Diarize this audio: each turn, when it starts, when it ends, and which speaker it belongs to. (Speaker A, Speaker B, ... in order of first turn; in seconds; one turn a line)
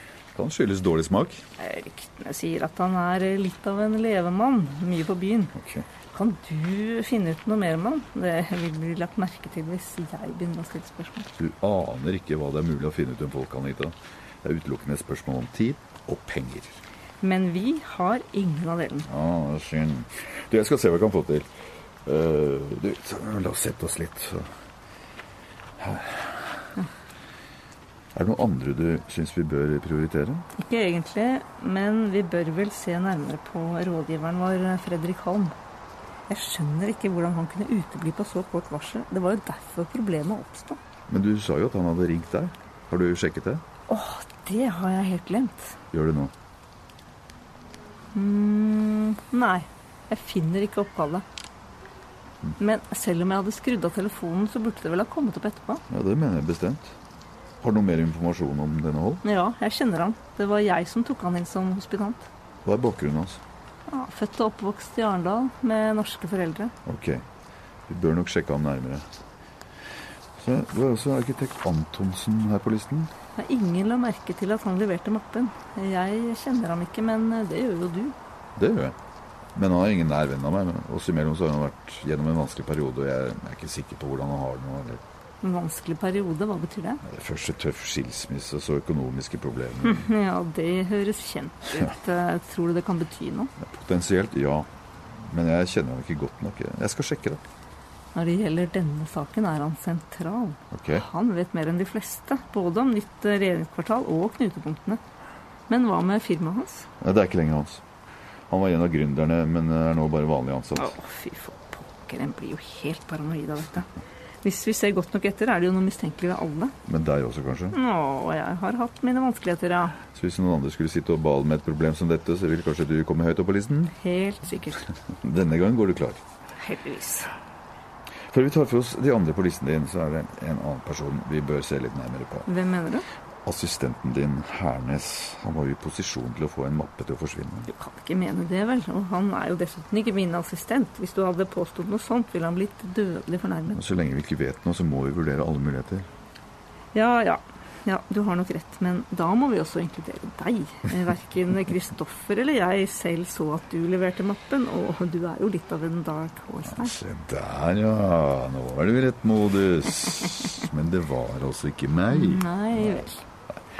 Speaker A: 0.3-1.4
Speaker B: 1.6-5.5
Speaker A: 5.5-5.8
Speaker B: 6.1-11.3
Speaker A: 11.4-16.8
Speaker B: 17.2-19.1
Speaker A: 19.1-21.5
Speaker A: 22.0-24.4
Speaker A: 25.8-26.4
Speaker A: 28.1-30.5
Speaker B: 30.6-35.5
Speaker B: 36.3-40.8
Speaker A: 41.1-43.6
Speaker B: 43.9-45.8
Speaker A: 45.9-46.3
Speaker B: 48.1-51.2
Speaker B: 52.6-55.8
Speaker A: 55.9-57.0
Speaker A: 57.6-59.2
Speaker B: 59.2-62.3
Speaker A: 62.6-63.4
Speaker B: 63.9-66.7
Speaker A: 66.8-67.2
Speaker A: 67.9-69.0
Speaker A: 70.4-73.1
Speaker B: 73.3-78.1
Speaker A: 78.5-79.0
Speaker A: 79.5-85.0
Speaker B: 85.4-87.0
Speaker A: 87.0-90.1
Speaker B: 89.8-93.5
Speaker A: 93.6-97.4
Speaker B: 98.1-105.0
Speaker A: 100.7-101.0
Speaker B: 105.7-106.9
Speaker A: 107.0-107.8
Speaker A: 108.5-110.9
Speaker B: 110.8-113.9
Speaker B: 114.4-116.7
Speaker A: 116.8-117.8
Speaker B: 117.7-120.0
Speaker A: 120.1-123.9
Speaker B: 123.9-124.9
Speaker A: 125.2-126.2
Speaker B: 126.6-127.3
Speaker A: 128.3-132.5
Speaker B: 132.4-133.1
Speaker A: 133.4-137.7
Speaker B: 137.7-143.8
Speaker A: 143.7-146.1
Speaker B: 146.9-156.9
Speaker A: 156.7-163.6
Speaker B: 162.1-163.2